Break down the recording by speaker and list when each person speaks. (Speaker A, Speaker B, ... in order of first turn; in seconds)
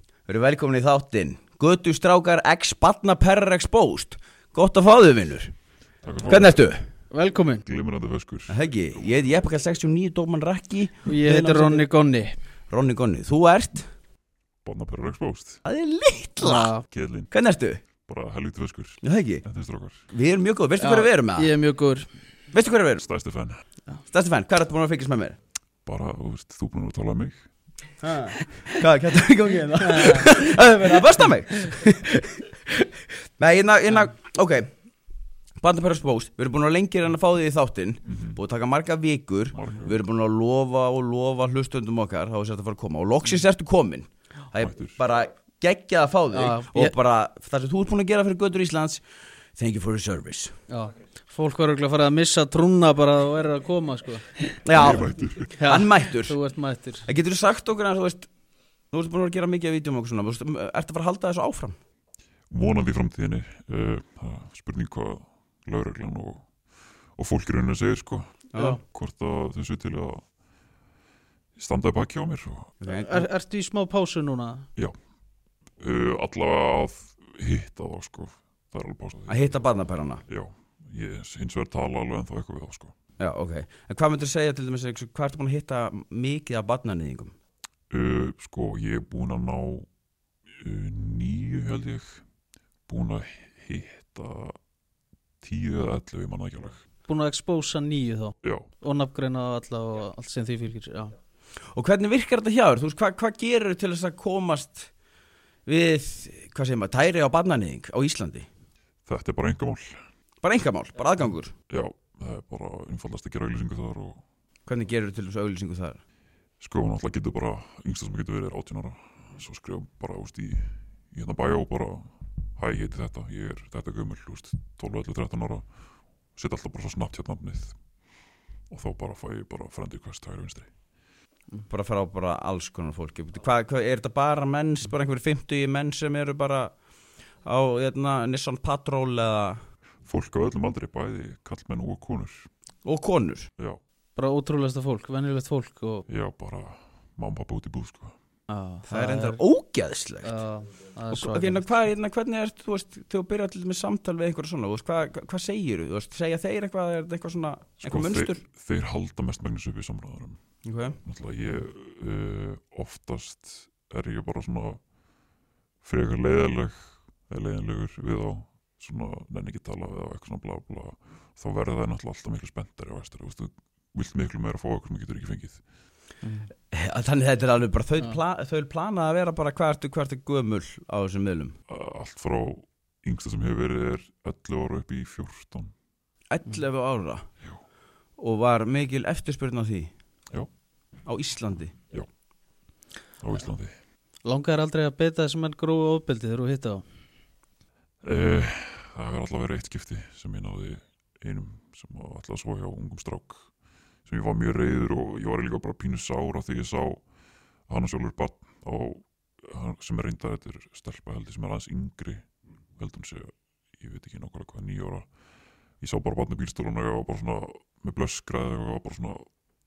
Speaker A: 0.3-5.5, 6.3-6.8, 8.5-11.9, 12.7-13.9, 15.7-16.7, 17.3-17.8, 19.0-19.4, 20.1-21.5, 22.5-23.0, 24.1-25.4, 28.0-32.9, 33.4-34.7, 35.6-49.0, 49.6-50.5, 54.6-56.4, 57.1-58.3, 58.9-61.8, 68.5-68.8, 72.8-73.3, 79.3-80.2, 83.2-87.3, 101.7-104.9, 105.7-108.5, 110.4-111.5, 114.7-116.0, 131.7-136.7, 137.4-139.6, 142.8-143.5, 148.9-150.3, 151.1-158.4, 160.7-161.0, 176.7-181.6, 186.3-187.2, 188.2-189.9, 191.1-191.8
Speaker B: 6.0-6.6, 7.6-8.6, 14.6-15.6, 16.9-17.3, 18.1-20.1, 23.0-23.6, 25.9-27.4, 38.1-38.4, 39.5-40.0, 44.6-45.0, 54.8-55.5, 62.5-66.5, 67.2-70.2, 71.6-72.7, 75.8-79.5, 80.3-82.9, 87.9-89.9, 90.6-92.2, 92.9-94.6, 95.4-96.8, 98.4-98.7, 109.1-110.0, 111.7-114.2, 116.6-125.7, 126.3-127.8, 128.7-130.7, 140.1-142.5, 146.1-148.2, 157.8-160.4, 161.0-164.8, 165.8-175.6, 181.7-185.7, 193.2-193.7, 198.0-203.5, 204.1-207.1, 207.7-215.1, 215.8-219.3
Speaker C: 7.1-7.6, 11.1-12.3, 16.4-16.9, 20.8-22.1, 29.9-30.3, 46.3-46.9, 50.7-54.5, 55.6-57.0, 72.9-74.7, 97.1-101.1, 144.2-146.1, 148.5-149.4, 150.2-151.7, 176.2-176.5, 194.2-196.8